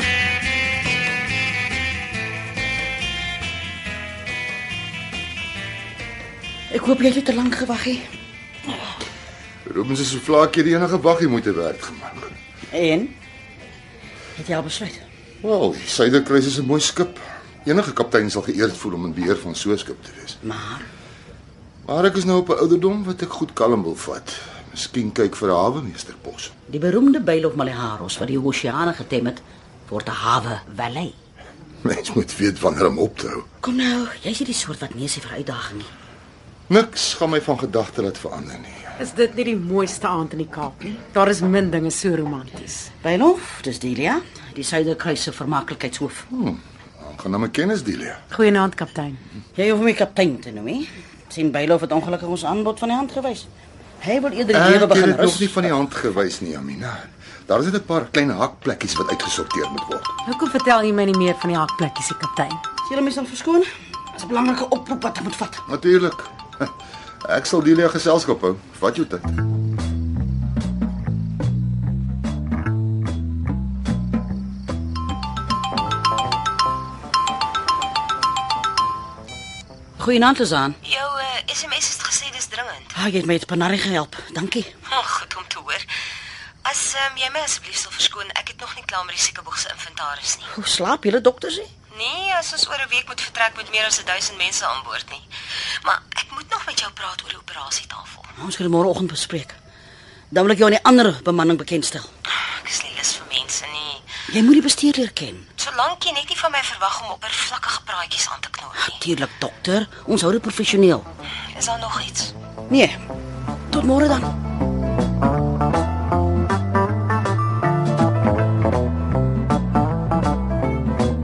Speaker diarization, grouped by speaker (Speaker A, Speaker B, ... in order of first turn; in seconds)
Speaker A: 6.7-8.1, 12.7-13.1, 14.4-15.1, 20.4-20.9, 26.7-31.1, 33.6-35.9, 43.0-46.2, 49.6-53.5, 54.0-55.7, 62.8-65.6, 80.0-80.8, 83.0-84.7, 90.5-91.7, 98.4-99.6, 100.3-102.1, 104.3-105.5, 108.8-111.1, 112.7-113.0, 113.7-114.3
Speaker B: 9.7-12.3, 15.4-20.4, 21.9-26.5, 31.8-33.5, 36.7-38.9, 46.3-48.2, 54.5-60.1, 65.7-66.7, 67.2-69.4
Speaker C: 39.0-42.9, 48.3-49.2, 60.2-62.6
Speaker D: 80.8-82.9, 84.9-85.9, 86.7-90.5, 91.9-95.3, 95.8-98.3, 102.3-104.1, 105.6-109.0, 111.5-112.3